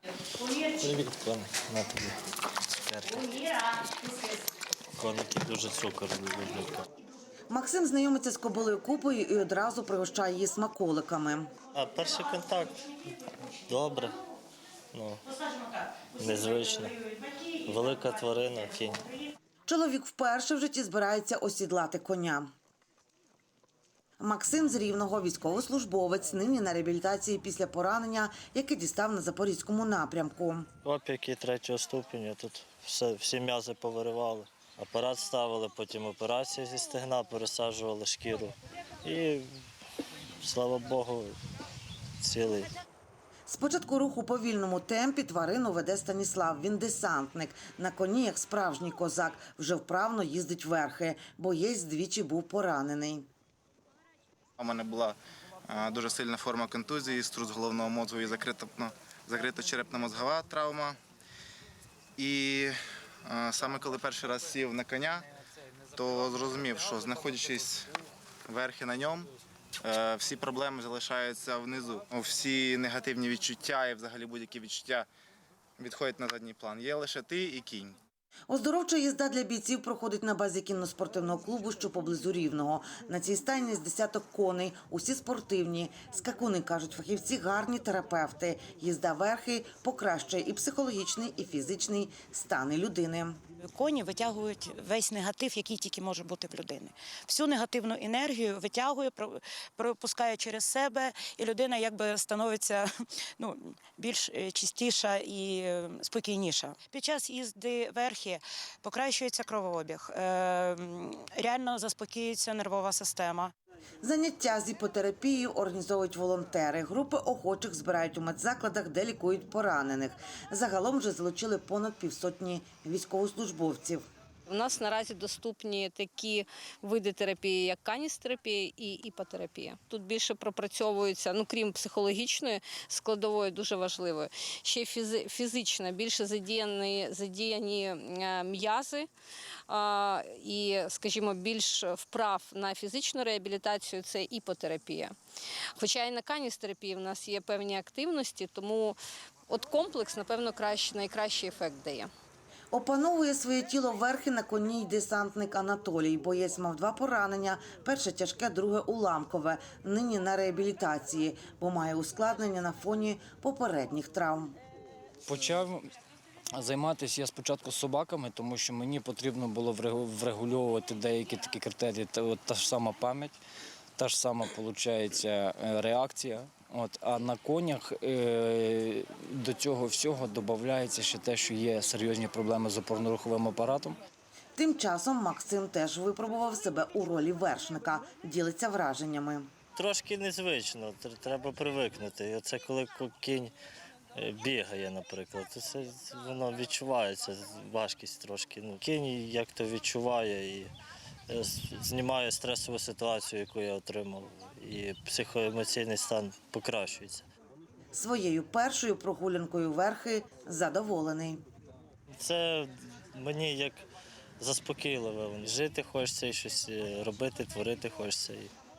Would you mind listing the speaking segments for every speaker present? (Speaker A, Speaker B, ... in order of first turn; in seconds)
Speaker A: 0.7-2.1, 2.9-3.2, 5.0-6.8, 11.7-13.0, 13.7-14.2, 14.9-15.2, 16.2-17.1, 17.6-19.0, 30.9-39.5, 40.4-41.4, 42.2-42.7, 189.8-193.6, 194.2-200.7, 201.3-207.2, 212.2-213.9, 214.4-218.5
Speaker B: 7.5-11.5, 19.7-22.5, 24.2-30.7, 43.5-53.3, 78.5-93.4, 114.0-124.0, 152.7-164.6, 184.6-189.5, 207.9-211.4
Speaker C: 54.6-55.2, 55.7-61.0, 62.2-62.8, 63.3-65.3, 65.9-67.9, 68.5-69.3, 69.8-75.1, 75.8-78.0
Speaker D: 93.8-102.8, 103.4-113.5
Speaker E: 124.5-139.1, 139.7-145.1, 145.8-152.1
Speaker F: 165.3-165.9, 166.6-173.4, 174.0-184.0